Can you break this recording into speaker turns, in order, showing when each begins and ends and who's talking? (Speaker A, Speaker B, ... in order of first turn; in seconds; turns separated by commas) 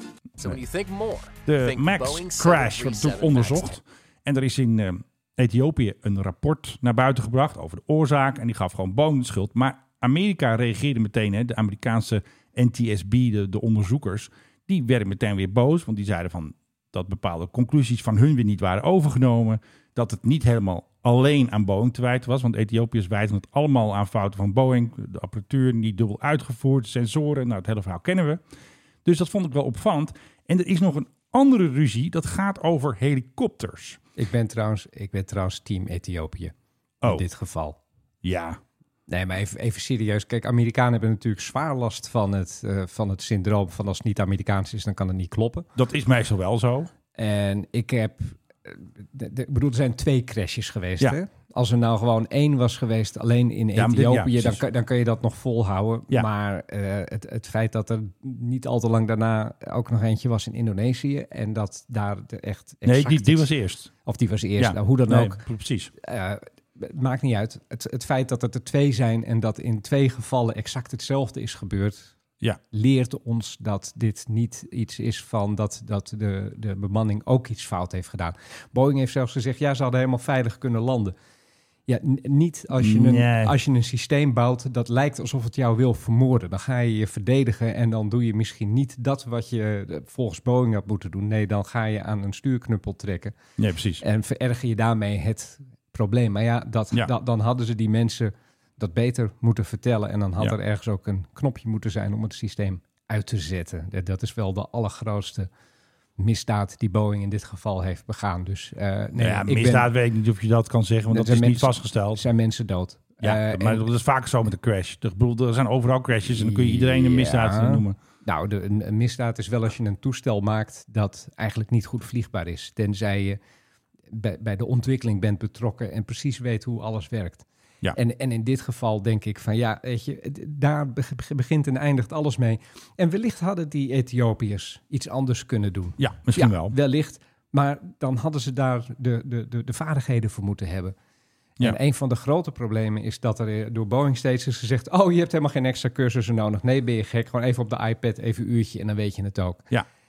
Speaker A: 0.4-3.8, Speaker B: 1.5-28.4, Speaker B: 29.1-34.0, Speaker C: 34.2-37.8, Speaker B: 38.2-38.6, Speaker C: 39.1-45.7, Speaker B: 45.8-46.9, Speaker C: 47.1-63.5, Speaker B: 53.8-54.6, Speaker B: 62.8-63.9, Speaker C: 64.0-65.4, Speaker B: 64.6-65.9, Speaker C: 66.0-72.1, Speaker C: 72.7-81.2, Speaker C: 81.9-93.3, Speaker B: 82.8-83.5, Speaker B: 93.6-94.0, Speaker C: 94.0-105.5, Speaker C: 106.2-109.9, Speaker B: 109.2-112.2, Speaker C: 111.1-113.9, Speaker B: 113.2-118.0, Speaker C: 116.3-123.4, Speaker C: 124.1-140.9, Speaker B: 136.0-136.8, Speaker C: 141.6-149.7